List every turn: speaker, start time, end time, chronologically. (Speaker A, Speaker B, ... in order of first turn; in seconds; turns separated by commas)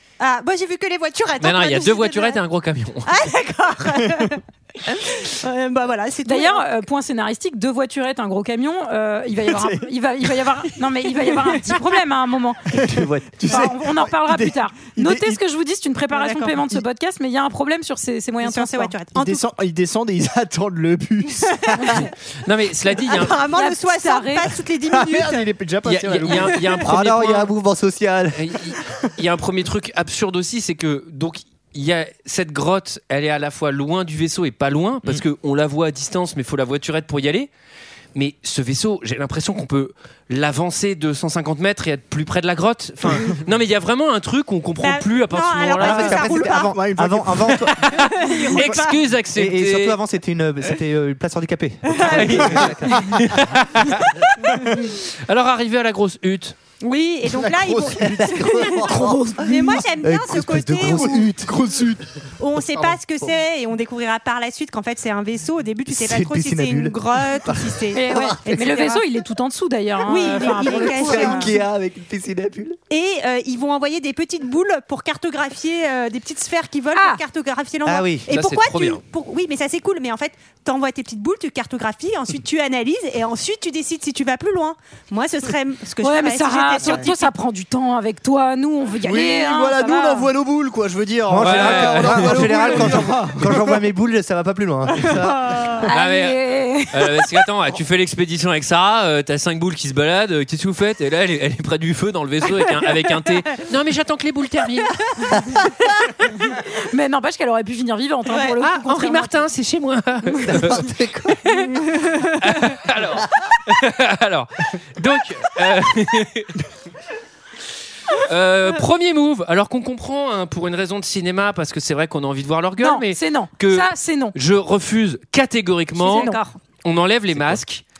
Speaker A: 0.2-2.4, Speaker B: 1.4-3.1, Speaker A: 3.1-6.7, Speaker C: 6.2-12.8, Speaker D: 12.8-15.4, Speaker E: 12.8-13.4, Speaker C: 13.4-19.0, Speaker A: 16.1-16.6, Speaker A: 18.4-19.4, Speaker D: 19.1-21.8, Speaker A: 21.6-22.0, Speaker B: 22.4-23.4, Speaker A: 23.1-25.5, Speaker C: 23.4-24.6, Speaker D: 24.9-26.7, Speaker B: 25.8-27.5, Speaker E: 26.9-28.6, Speaker B: 28.4-37.5, Speaker B: 38.1-46.2, Speaker A: 44.8-46.8, Speaker E: 45.8-47.8, Speaker D: 46.5-47.6, Speaker B: 47.7-50.0, Speaker A: 48.2-49.0, Speaker E: 49.3-53.3, Speaker B: 52.1-54.3, Speaker B: 55.3-56.6, Speaker A: 56.8-61.4, Speaker D: 57.3-59.8, Speaker E: 58.2-61.5, Speaker D: 60.8-62.0, Speaker A: 62.4-69.0, Speaker E: 65.9-68.6, Speaker C: 67.9-71.5, Speaker A: 70.0-71.5, Speaker E: 70.4-72.8, Speaker A: 72.9-87.3, Speaker C: 76.9-77.2, Speaker E: 77.8-78.3, Speaker B: 78.3-79.0, Speaker C: 86.0-90.3, Speaker D: 86.8-87.1, Speaker D: 89.0-93.8, Speaker E: 91.3-95.6, Speaker B: 91.4-92.7, Speaker A: 95.1-95.8, Speaker C: 95.9-97.3, Speaker B: 95.9-104.9, Speaker C: 106.9-109.4, Speaker B: 108.6-110.9, Speaker E: 110.5-111.5, Speaker B: 112.4-116.5, Speaker B: 118.1-127.8, Speaker C: 122.8-124.3, Speaker C: 126.0-126.5, Speaker A: 126.0-126.5, Speaker E: 127.3-127.6